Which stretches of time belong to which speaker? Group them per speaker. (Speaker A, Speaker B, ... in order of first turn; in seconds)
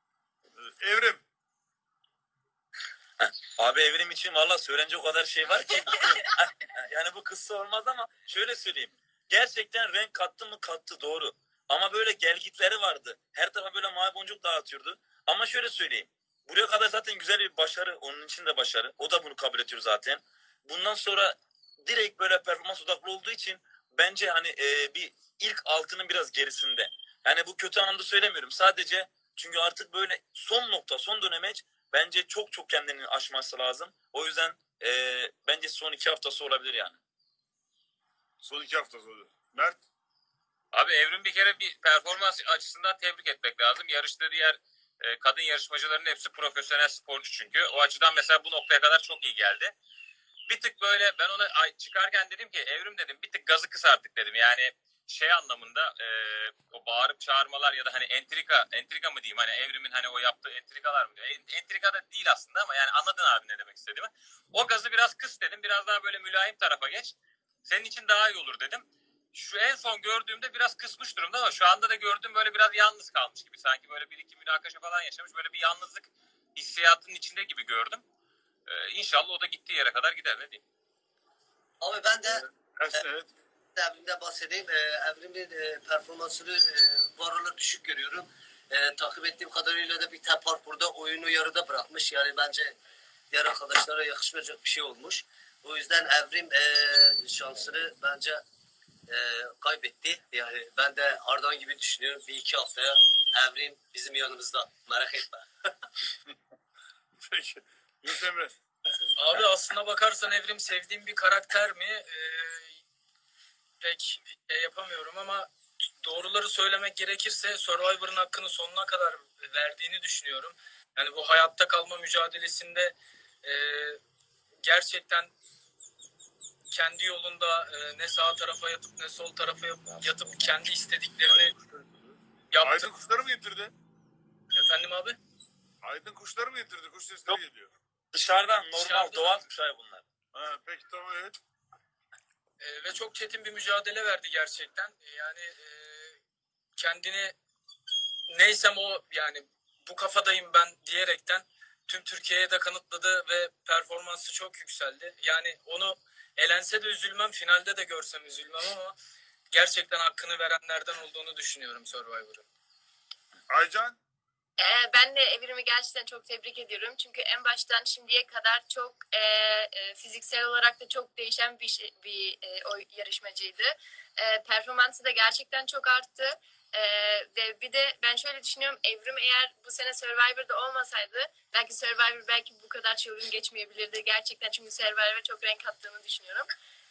Speaker A: 0.6-1.2, 38.4-39.8, 82.3-83.3, 107.2-108.5, 131.3-133.7, 135.8-137.7, 140.3-141.4, 163.5-164.0
Speaker B: 3.2-37.0, 138.1-140.1
Speaker C: 40.7-49.7, 50.5-67.1, 67.7-78.0, 78.7-80.6
Speaker D: 81.8-82.4, 83.8-92.8, 93.3-98.4, 99.1-105.7
Speaker E: 109.2-112.8, 113.8-115.5, 116.0-124.0, 124.6-125.3, 126.7-131.5, 132.5-132.9, 134.5-135.2, 138.8-139.4, 142.6-146.2, 146.8-147.3, 148.3-159.0, 159.5-162.4
Speaker F: 164.6-186.5